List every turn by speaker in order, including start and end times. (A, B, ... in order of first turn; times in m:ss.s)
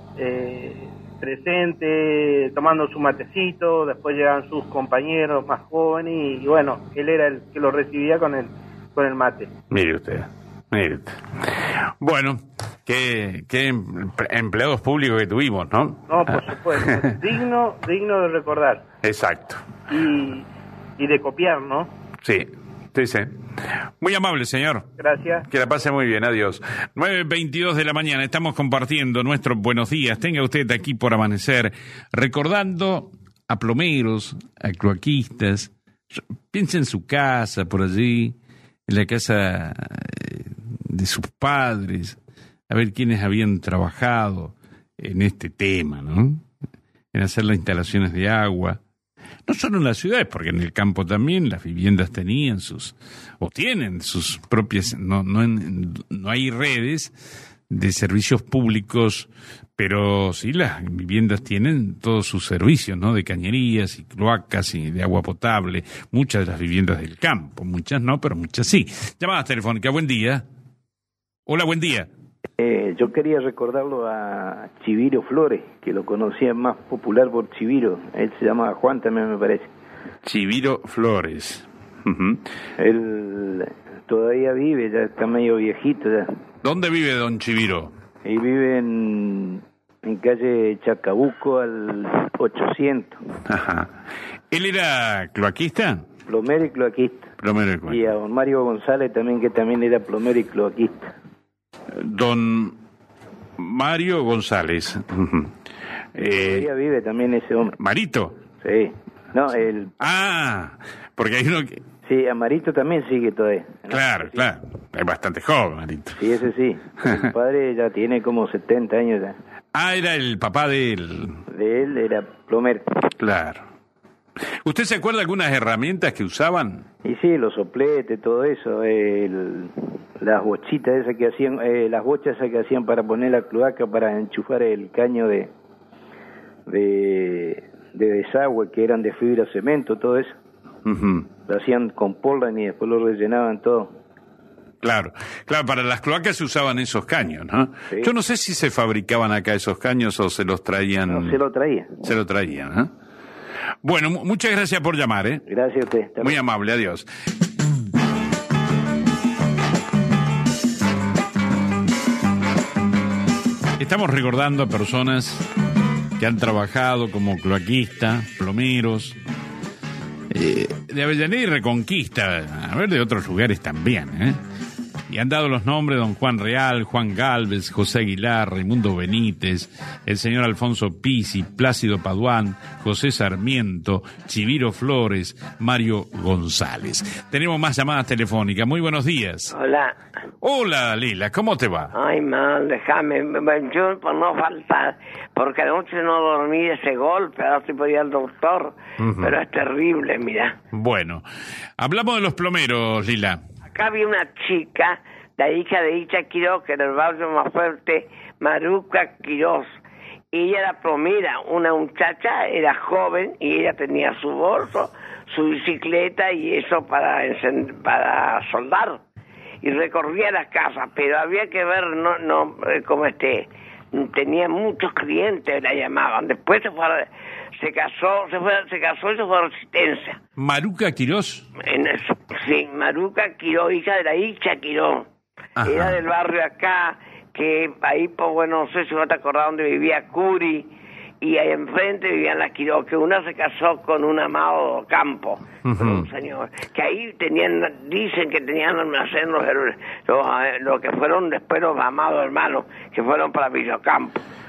0:00.2-0:09.5 A
0:09.7-0:17.1 B
0:16.1-0:18.8 A
0:19.0-0:19.6 B
0:19.9-0:20.5 A
0:21.0-0:21.9 A
0:22.2-0:23.3 B
0:24.0-0:24.9 B
0:25.0-0:25.5 A
0:25.5-0:38.4 B
0:38.9-0:42.2 B
0:42.7-0:46.4 B
0:47.1-0:48.8 B
0:49.5-0:57.1 B
0:57.7-1:10.4 B
1:11.5-1:12.1 B
1:12.6-1:19.7 C
1:20.2-1:22.4 B
1:22.8-1:26.3 C
1:26.6-1:27.9 B
1:28.2-1:33.2 C
1:33.5-1:33.9 B
1:34.5-1:36.0 B
1:36.3-1:37.3 C
1:37.4-1:38.0 B
1:37.8-1:41.1 C
1:41.9-1:42.8 B
1:43.6-1:45.5 B
1:46.1-1:46.7 B
1:46.2-1:47.7 C
1:47.8-1:48.4 B
1:48.6-1:49.9 C
1:50.0-1:51.8 B
1:52.0-1:54.4 C
1:53.9-1:56.2 B
1:56.2-1:59.4 C
1:59.7-2:01.4 B
2:01.5-2:02.9 C
2:03.2-2:03.6 B
2:04.6-2:06.8 B
2:07.0-2:15.5 C
2:16.7-2:20.3 C
2:20.8-2:21.3 B
2:21.5-2:24.0 C
2:24.8-2:31.4 B
2:31.1-2:32.0 C
2:32.0-2:32.9 B
2:33.8-2:35.4 B
2:35.4-2:36.4 C
2:36.2-2:37.1 B
2:43.8-2:45.5 B
2:46.2-2:49.2 B
2:50.3-2:54.4 B
2:55.1-3:09.5 B
3:09.5-3:10.0 D
3:10.4-3:11.9 B
3:11.9-3:20.6 D
3:19.0-3:19.3 B
3:20.7-3:21.2 B
3:21.8-3:23.4 B
3:23.7-3:29.8 D
3:30.3-3:39.0 D
3:39.6-3:50.2 D
3:50.4-3:51.5 B
3:51.6-3:55.0 D
3:55.6-3:56.0 B
3:55.6-4:00.7 D
4:01.2-4:14.2 D
4:05.6-4:06.1 B